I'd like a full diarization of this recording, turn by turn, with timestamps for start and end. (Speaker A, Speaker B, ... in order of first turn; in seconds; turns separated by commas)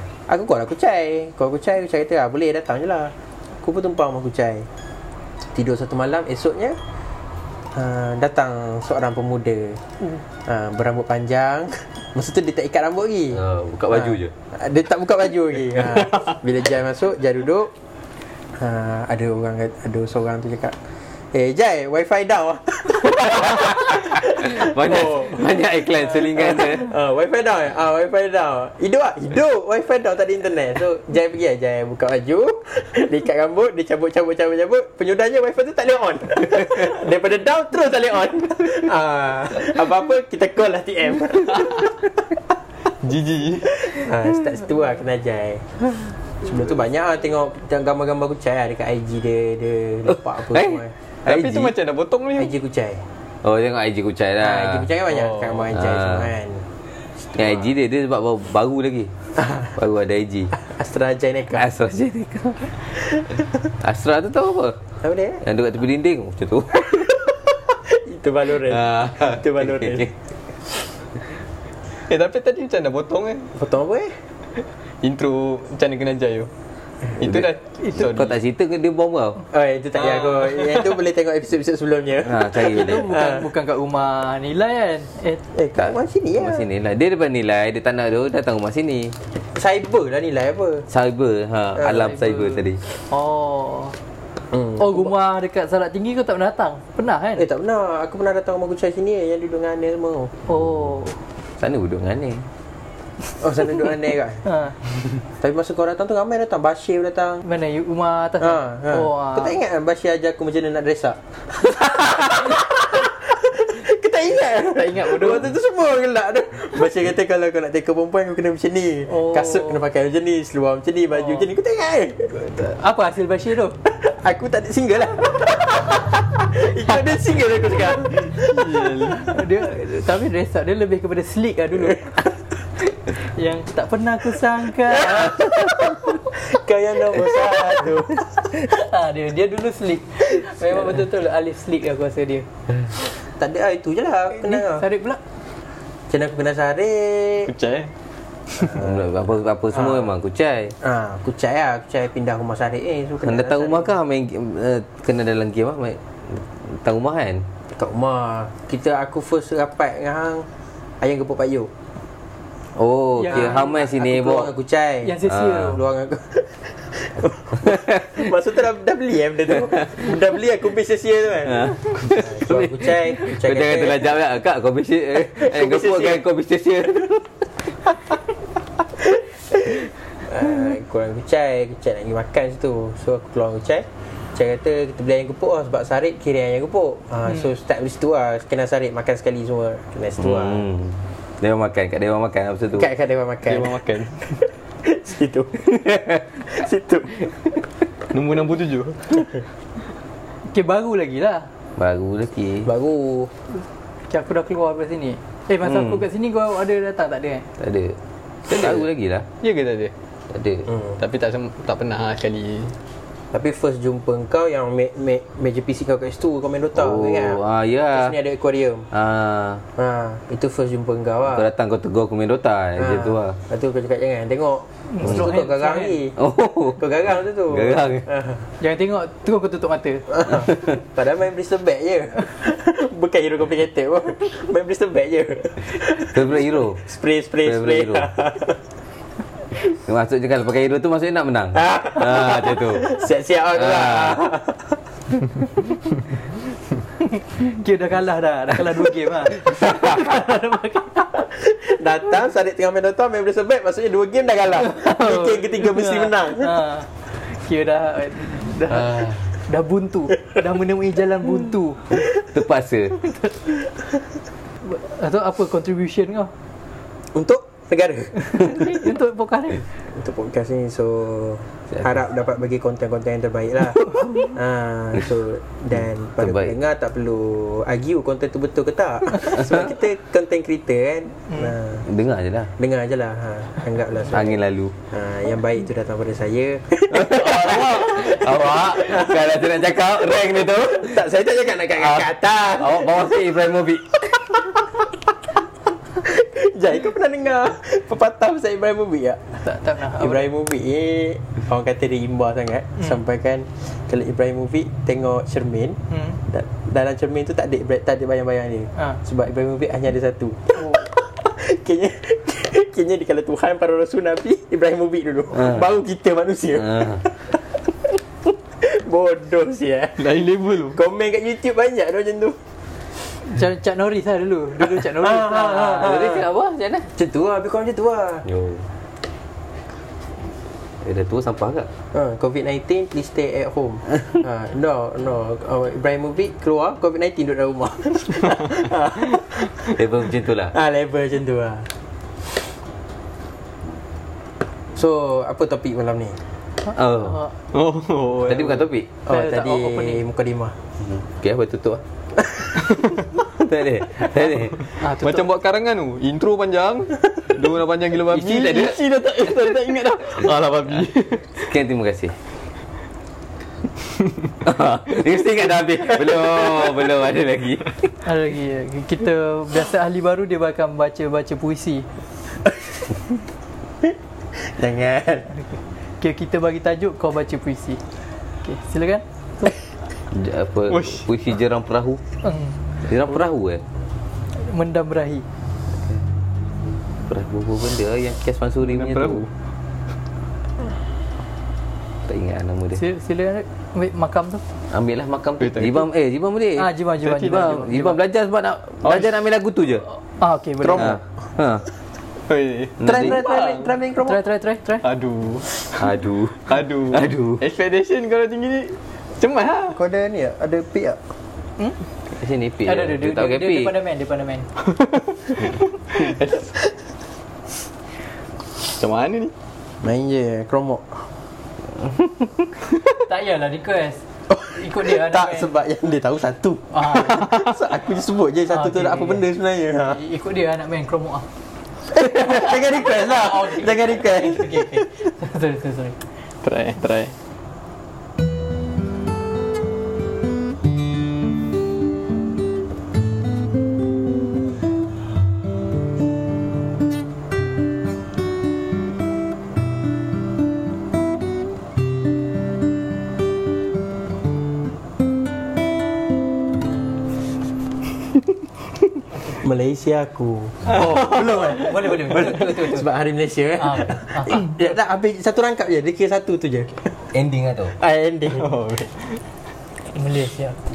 Speaker A: 0.3-4.7, Speaker A: 5.5-6.8, Speaker A: 7.7-17.7, Speaker B: 13.3-14.3, Speaker A: 18.6-20.8, Speaker A: 21.3-25.3, Speaker B: 23.5-26.9, Speaker A: 26.2-42.1, Speaker C: 43.0-43.9, Speaker A: 43.8-45.8, Speaker A: 46.4-51.3, Speaker B: 50.5-51.7, Speaker C: 51.2-52.5, Speaker A: 52.4-53.0, Speaker B: 53.4-54.9, Speaker A: 54.4-56.6, Speaker C: 55.1-55.6, Speaker B: 55.7-56.3, Speaker B: 57.3-59.1, Speaker A: 57.3-57.7, Speaker A: 59.4-59.7, Speaker B: 59.7-60.5, Speaker A: 60.5-61.6, Speaker B: 61.5-63.0, Speaker B: 63.8-64.8, Speaker A: 65.0-65.4, Speaker B: 65.4-67.1, Speaker A: 66.9-70.1, Speaker B: 68.7-70.1, Speaker C: 72.1-73.5, Speaker A: 73.5-74.1, Speaker C: 75.0-76.5, Speaker C: 77.2-78.3, Speaker B: 77.2-77.5, Speaker B: 78.0-79.4, Speaker A: 79.5-83.5, Speaker B: 82.2-83.0, Speaker D: 82.6-85.4, Speaker A: 85.5-86.7, Speaker B: 85.8-89.2, Speaker A: 89.5-90.9, Speaker B: 90.9-92.8, Speaker A: 91.8-92.1, Speaker D: 93.1-94.0, Speaker A: 94.5-95.1, Speaker D: 94.8-97.4, Speaker A: 97.4-100.3, Speaker D: 100.5-101.2, Speaker B: 101.6-102.4, Speaker A: 103.4-104.4, Speaker D: 104.4-104.8, Speaker A: 105.4-107.4, Speaker D: 107.4-109.5, Speaker A: 108.4-122.5, Speaker C: 114.7-115.5, Speaker D: 119.1-119.8, Speaker D: 122.4-123.8, Speaker A: 123.8-128.7, Speaker C: 128.3-129.3, Speaker D: 129.2-132.1, Speaker D: 133.1-135.4, Speaker A: 135.1-138.5, Speaker D: 138.5-142.4, Speaker A: 143.0-144.8, Speaker D: 144.4-145.2, Speaker A: 146.1-147.5, Speaker C: 147.4-147.9, Speaker A: 148.5-149.0, Speaker B: 148.7-150.7, Speaker A: 149.7-150.1, Speaker A: 150.8-153.9, Speaker B: 153.2-157.4, Speaker A: 157.7-160.5, Speaker A: 161.0-161.7, Speaker B: 162.8-164.5, Speaker D: 163.2-163.7, Speaker A: 163.2-174.1, Speaker D: 165.0-165.8, Speaker B: 165.2-165.8, Speaker B: 171.5-177.3, Speaker A: 175.3-176.2, Speaker A: 179.0-190.7, Speaker B: 190.2-192.9, Speaker A: 192.7-197.5, Speaker C: 193.4-194.2, Speaker C: 198.1-199.4, Speaker D: 200.4-201.5, Speaker B: 201.8-202.7, Speaker A: 202.6-203.3, Speaker D: 204.1-207.5, Speaker B: 207.6-209.2, Speaker C: 208.5-208.8, Speaker C: 209.4-209.9, Speaker B: 210.3-210.7, Speaker C: 211.0-212.8, Speaker A: 213.3-217.4, Speaker B: 216.7-218.2, Speaker A: 217.9-218.9, Speaker B: 218.9-219.7, Speaker A: 219.8-221.4, Speaker B: 221.3-223.4, Speaker A: 222.8-226.2, Speaker D: 224.9-226.0, Speaker B: 226.2-226.8, Speaker A: 226.7-228.5, Speaker B: 227.5-228.1, Speaker D: 228.6-230.1, Speaker A: 230.1-238.6, Speaker B: 236.1-236.8, Speaker B: 237.4-238.1, Speaker B: 239.6-242.8, Speaker A: 241.5-244.8, Speaker B: 243.6-244.2, Speaker D: 247.2-251.1, Speaker A: 251.1-256.6, Speaker D: 254.7-261.9, Speaker B: 258.7-259.2, Speaker B: 262.0-263.0, Speaker D: 264.6-266.3, Speaker A: 267.1-268.7, Speaker D: 268.3-269.6, Speaker A: 269.9-281.9, Speaker B: 276.2-276.6, Speaker B: 281.9-282.5, Speaker A: 282.6-289.5, Speaker B: 284.1-284.7, Speaker B: 286.9-291.0, Speaker A: 290.7-293.1, Speaker B: 291.7-294.1, Speaker A: 295.9-299.2, Speaker D: 299.4-300.3, Speaker A: 299.9-317.6, Speaker A: 318.6-320.0, Speaker C: 320.0-320.8, Speaker A: 320.7-322.4, Speaker D: 323.2-325.9, Speaker A: 324.6-326.2, Speaker B: 325.8-326.9, Speaker A: 326.9-328.2, Speaker B: 328.2-328.6, Speaker B: 330.8-331.7, Speaker A: 331.9-339.7, Speaker B: 339.7-340.5, Speaker A: 340.5-341.7, Speaker A: 344.7-346.2, Speaker B: 346.7-347.3, Speaker C: 347.5-348.7, Speaker B: 348.2-348.9, Speaker A: 349.1-350.6, Speaker D: 349.1-350.0, Speaker B: 350.8-351.8, Speaker B: 353.2-354.7, Speaker D: 354.8-355.3, Speaker C: 355.0-361.4, Speaker B: 358.1-358.8, Speaker B: 361.4-362.1, Speaker B: 364.4-367.8, Speaker D: 368.0-371.9, Speaker A: 374.3-375.3, Speaker D: 376.0-377.8, Speaker D: 378.4-379.5, Speaker B: 380.1-382.0, Speaker C: 380.7-381.1, Speaker D: 382.2-382.5, Speaker B: 382.8-383.6, Speaker D: 384.4-385.2, Speaker B: 387.1-389.2, Speaker C: 388.6-389.3, Speaker B: 392.1-392.8, Speaker D: 392.7-394.4, Speaker B: 394.7-396.7, Speaker C: 395.4-395.9, Speaker D: 396.6-397.9, Speaker C: 397.0-397.6, Speaker B: 397.4-399.8, Speaker D: 400.2-401.0, Speaker A: 400.6-401.0, Speaker B: 400.8-401.7, Speaker C: 402.3-403.7, Speaker B: 402.8-403.1, Speaker A: 402.8-404.2, Speaker D: 404.0-404.8, Speaker C: 404.8-405.8, Speaker B: 405.8-407.4, Speaker C: 406.4-409.8, Speaker A: 409.7-411.0, Speaker B: 412.1-413.7, Speaker D: 412.6-414.5, Speaker C: 414.9-416.5, Speaker C: 418.6-419.3, Speaker A: 419.8-421.1, Speaker D: 422.9-425.5, Speaker A: 424.3-430.0, Speaker D: 426.7-427.2, Speaker D: 428.5-429.2, Speaker D: 429.9-431.3, Speaker A: 431.8-435.1, Speaker D: 433.1-436.0, Speaker C: 436.4-437.1, Speaker A: 459.4-467.0, Speaker D: 461.4-462.5, Speaker B: 461.9-462.8, Speaker D: 463.6-464.5, Speaker B: 467.1-467.7, Speaker A: 467.7-468.5, Speaker C: 468.3-469.2, Speaker D: 469.9-470.6